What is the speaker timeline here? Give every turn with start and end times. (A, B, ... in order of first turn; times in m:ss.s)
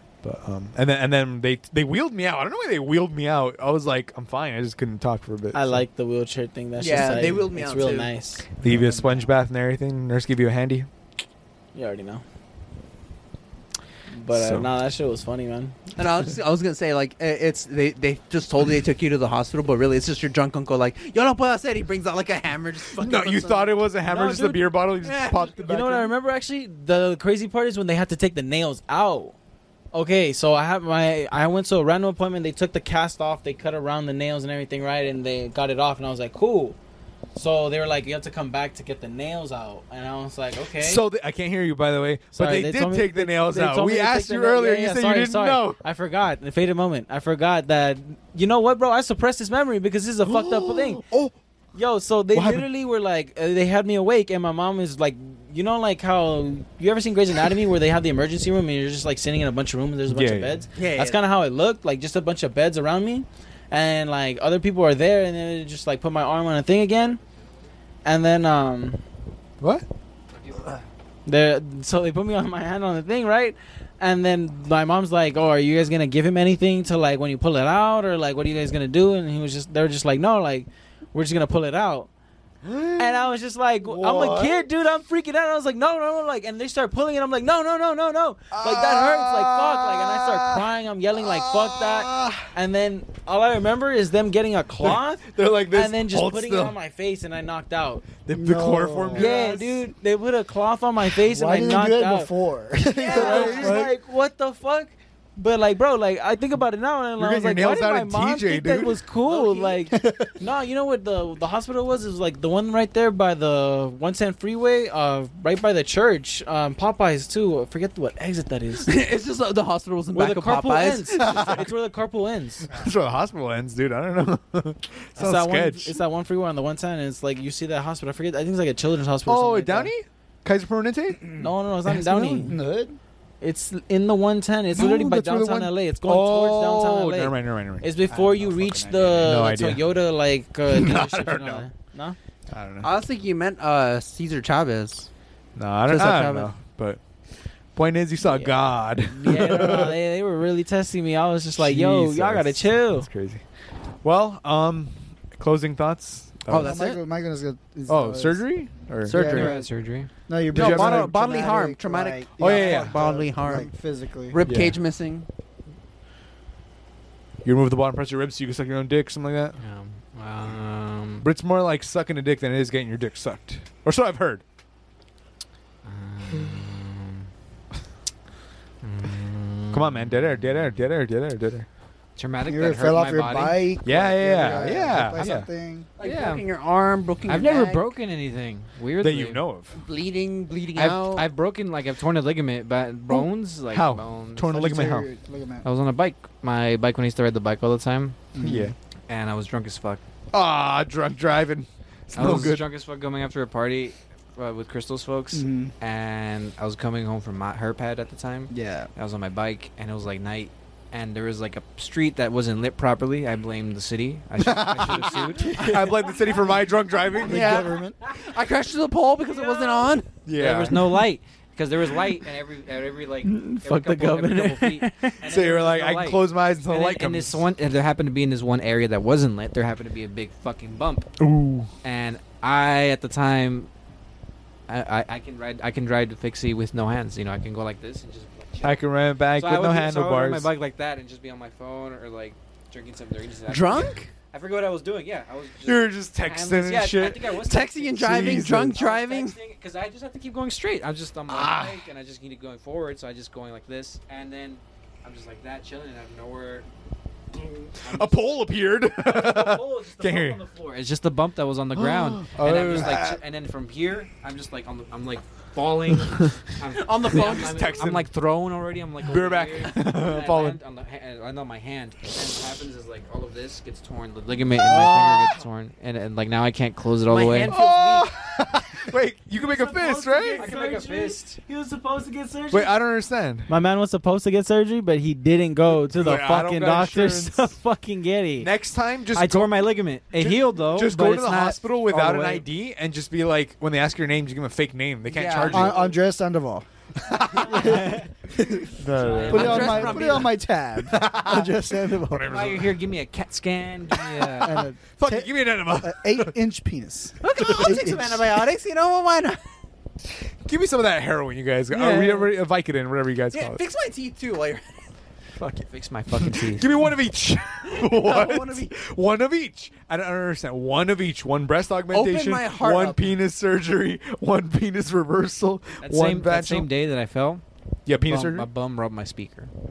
0:00.2-0:05.8 A
0:05.5-0:08.5 B
0:06.8-0:08.1 C
0:08.6-0:10.9 A
0:08.6-0:09.3 D
0:11.8-0:12.2 B
0:14.1-0:15.8 B
0:14.3-0:14.7 A
0:16.0-0:25.9 C
0:23.0-0:26.1 A
0:24.1-0:24.6 B
0:25.6-0:29.4 B
0:29.9-0:36.8 B
0:37.4-0:41.0 B
0:40.8-0:45.8 A
0:42.3-0:51.0 B
0:50.2-0:51.3 A
0:51.8-1:07.2 B
0:52.3-0:52.7 A
1:00.1-1:00.7 A
1:00.8-1:01.2 C
1:08.0-1:09.0 B
1:11.3-1:22.1 B
1:22.6-1:23.3 A
1:23.0-1:38.1 B
1:23.9-1:24.7 A
1:28.5-1:32.5 A
1:34.8-1:36.8 A
1:38.2-1:39.6 A
1:38.3-1:39.7 D
1:39.1-1:42.3 B
1:41.3-1:43.9 D
1:43.0-1:58.9 B
1:43.0-1:43.7 C
1:43.2-1:43.7 A
1:47.2-1:49.0 A
1:49.2-1:49.9 C
1:49.9-1:50.4 D
1:58.9-2:01.7 C
2:00.1-2:02.7 B
2:01.2-2:01.6 A
2:02.7-2:06.0 A
2:05.2-2:09.9 B
2:09.3-2:12.6 A
2:11.4-2:12.6 B
2:12.5-2:13.0 D
2:13.4-2:22.2 B
2:14.7-2:17.9 A
2:18.1-2:19.3 D
2:19.2-2:19.8 A
2:20.7-2:21.7 A
2:22.5-2:23.0 A
2:22.8-2:25.1 C
2:25.6-2:27.0 A
2:25.9-2:26.5 C
2:27.8-2:30.0 A
2:28.3-2:28.6 B
2:29.1-2:33.1 B
2:31.6-2:33.4 A
2:34.0-2:36.8 A
2:36.5-2:37.0 C
2:36.5-2:39.7 D
2:37.9-2:39.4 A
2:39.1-2:39.6 C
2:39.3-2:40.1 E
2:40.3-2:44.4 D
2:40.5-2:41.1 A
2:40.5-2:43.7 C
2:42.4-2:43.0 A
2:44.3-2:45.3 C
2:44.4-2:44.8 A
2:47.4-2:49.6 A
2:49.6-2:51.3 E
2:51.2-2:54.4 A
2:55.8-2:57.3 E
2:58.8-3:00.7 E
2:59.7-3:01.7 A
3:02.2-3:03.7 E
3:02.5-3:05.9 D
3:03.8-3:05.5 A
3:06.0-3:07.9 C
3:06.0-3:06.4 E
3:07.3-3:09.4 E
3:09.0-3:09.8 A
3:09.7-3:11.2 C
3:10.8-3:14.6 E
3:13.1-3:15.1 A
3:14.5-3:15.6 D
3:15.6-3:18.2 E
3:18.4-3:18.7 D
3:18.4-3:18.7 A
3:19.1-3:20.0 E
3:20.3-3:22.7 A
3:22.2-3:35.7 E
3:25.3-3:25.7 D
3:28.5-3:28.9 D
3:35.5-3:35.8 C
3:35.5-3:37.7 A
3:37.2-3:38.0 D
3:37.2-3:40.1 C
3:39.3-3:39.7 E
3:40.2-3:41.0 A
3:40.4-3:51.1 E
3:43.2-3:45.2 B
3:45.2-3:47.4 A
3:51.2-3:51.7 A
3:51.8-3:53.7 E
3:54.7-4:16.7 E
3:58.6-4:00.5 A
4:03.5-4:04.1 C
4:05.6-4:07.3 A
4:07.4-4:09.4 C
4:08.0-4:08.8 A
4:11.3-4:11.8 A
4:17.3-4:37.5 E
4:17.8-4:20.4 A
4:21.8-4:23.2 A
4:26.7-4:27.9 C
4:27.1-4:28.1 A
4:29.0-4:30.6 A
4:34.7-4:35.0 A
4:37.1-4:38.1 C
4:37.4-4:40.5 A
4:39.3-4:42.8 B
4:40.4-4:41.4 E
4:42.5-4:43.5 A
4:43.5-4:48.5 B
4:45.7-4:47.6 A
4:48.4-4:49.5 A
4:49.1-4:52.5 E
4:50.1-4:55.9 A
4:55.1-4:55.9 C
4:55.5-4:56.7 D
4:57.0-4:58.0 A
4:57.3-4:58.8 D
4:58.8-5:00.0 A
4:59.0-5:00.3 E
4:59.2-5:00.3 C
4:59.3-5:02.3 D
5:00.9-5:01.5 A
5:02.1-5:02.8 A
5:02.3-5:04.7 E
5:04.4-5:08.2 D
5:04.4-5:06.3 A
5:07.2-5:09.4 C
5:10.4-5:13.6 A
5:11.7-5:12.3 C
5:13.3-5:14.8 C
5:15.4-5:16.7 E
5:16.4-5:26.7 A
5:17.7-5:18.7 C
5:21.9-5:23.1 C
5:25.8-5:27.4 E
5:27.9-5:28.5 A
5:28.0-5:29.5 E